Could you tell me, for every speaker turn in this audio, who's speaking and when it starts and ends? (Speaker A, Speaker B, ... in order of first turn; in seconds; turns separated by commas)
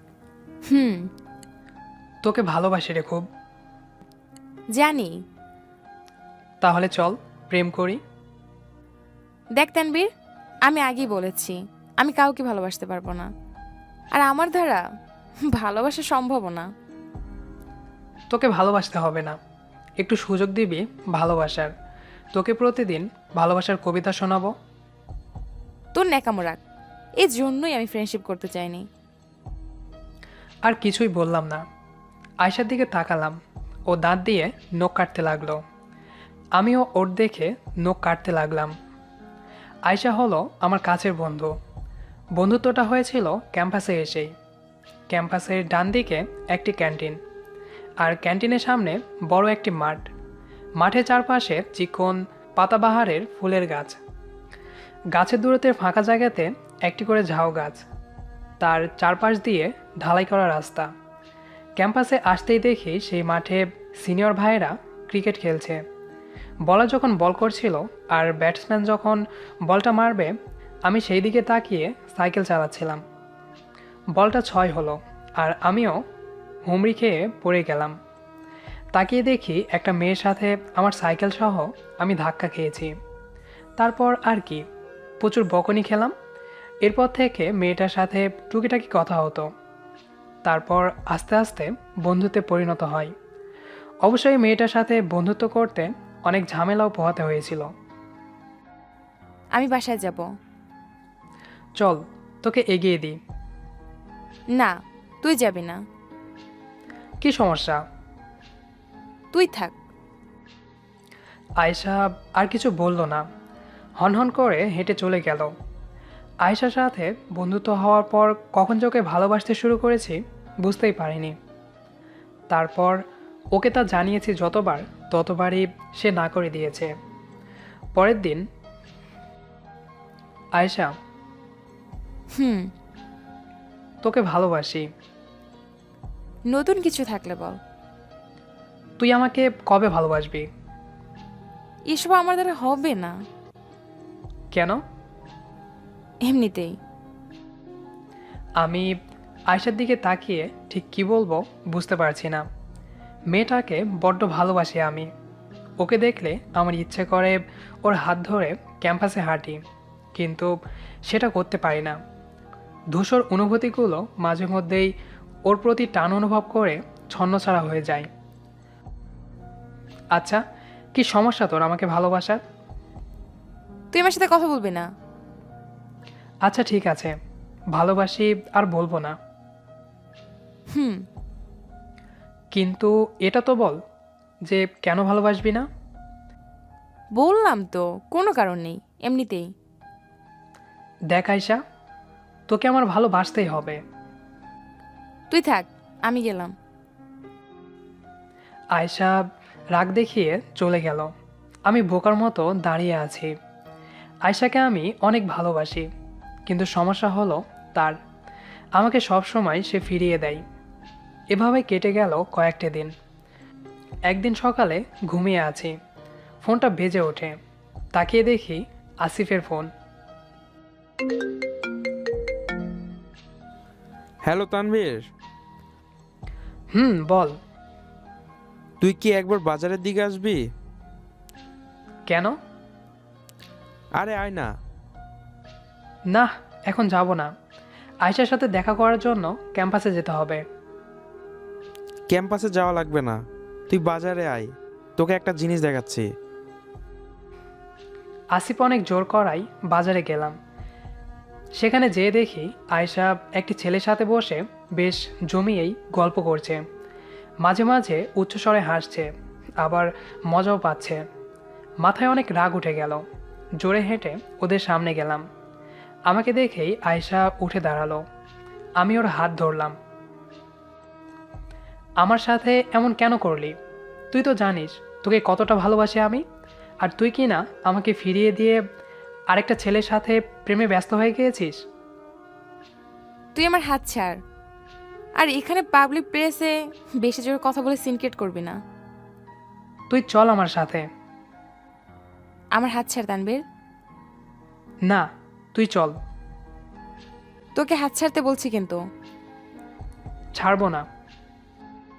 Speaker A: 0.7-1.1, Speaker B: 2.2-3.2, Speaker A: 4.8-5.1, Speaker B: 6.6-8.0, Speaker A: 9.6-10.1, Speaker A: 10.7-13.3, Speaker A: 14.2-14.8, Speaker A: 15.5-16.7, Speaker B: 18.3-19.4, Speaker B: 20.0-21.7, Speaker B: 22.3-24.5, Speaker A: 25.9-26.6, Speaker A: 27.2-28.8, Speaker B: 30.6-31.6, Speaker B: 32.4-33.4, Speaker B: 33.9-35.6, Speaker B: 36.5-38.7, Speaker B: 39.9-41.5, Speaker B: 42.4-44.3, Speaker B: 45.1-47.2, Speaker B: 48.0-50.1, Speaker B: 50.8-54.0, Speaker B: 55.1-57.8, Speaker B: 58.6-60.9, Speaker B: 61.8-65.8, Speaker B: 66.7-70.3, Speaker B: 70.8-73.0, Speaker B: 74.2-76.0, Speaker B: 76.7-78.0, Speaker B: 79.0-82.9, Speaker B: 83.8-84.6, Speaker B: 85.2-86.1, Speaker B: 86.8-89.5, Speaker B: 90.5-93.1, Speaker B: 94.0-97.7, Speaker A: 99.5-100.2, Speaker B: 101.8-103.2, Speaker A: 104.5-105.8, Speaker B: 107.2-107.8, Speaker A: 109.3-109.7, Speaker B: 111.6-113.2, Speaker B: 114.0-115.5, Speaker B: 116.4-121.3, Speaker B: 122.5-123.0, Speaker B: 123.5-126.9, Speaker B: 128.0-128.4, Speaker B: 130.6-130.9, Speaker A: 132.3-132.7, Speaker B: 134.0-134.9, Speaker A: 136.5-137.6, Speaker B: 139.0-140.5, Speaker A: 141.9-143.1, Speaker B: 144.5-144.8, Speaker A: 146.2-146.7, Speaker B: 148.6-148.9, Speaker B: 149.5-152.4, Speaker B: 153.3-155.1, Speaker B: 155.8-159.6, Speaker B: 160.2-160.5, Speaker B: 161.1-162.0, Speaker B: 162.9-164.9, Speaker B: 165.5-168.1, Speaker B: 170.9-172.4, Speaker A: 173.9-174.9, Speaker B: 176.5-177.1, Speaker B: 177.8-179.2, Speaker A: 180.7-181.0, Speaker B: 182.5-183.8, Speaker B: 184.5-185.7, Speaker A: 187.2-189.5, Speaker B: 191.1-191.6, Speaker B: 192.5-193.8, Speaker A: 195.3-196.5, Speaker B: 198.8-199.2, Speaker B: 199.8-201.1, Speaker B: 201.7-203.3, Speaker B: 204.2-205.9, Speaker B: 206.5-207.9, Speaker B: 208.8-210.4, Speaker B: 211.3-212.9, Speaker B: 214.1-215.7, Speaker B: 216.4-217.3, Speaker B: 217.9-219.7, Speaker C: 224.2-225.1, Speaker B: 226.7-227.3, Speaker C: 228.8-230.4, Speaker B: 232.1-232.3, Speaker C: 233.9-234.5, Speaker B: 236.1-237.3, Speaker B: 238.0-240.4, Speaker C: 242.1-243.2, Speaker C: 243.7-246.1, Speaker B: 248.3-250.3, Speaker B: 251.6-256.6, Speaker B: 257.4-261.0, Speaker B: 261.8-263.0, Speaker B: 263.6-265.2, Speaker B: 266.1-268.0, Speaker B: 268.8-269.8, Speaker B: 272.0-273.5, Speaker B: 274.1-276.2, Speaker B: 276.8-278.6, Speaker B: 279.3-281.6, Speaker A: 283.3-284.1, Speaker A: 285.2-288.6, Speaker B: 289.9-290.8, Speaker A: 292.6-293.4, Speaker B: 294.9-295.9, Speaker A: 297.6-298.8, Speaker B: 300.4-300.8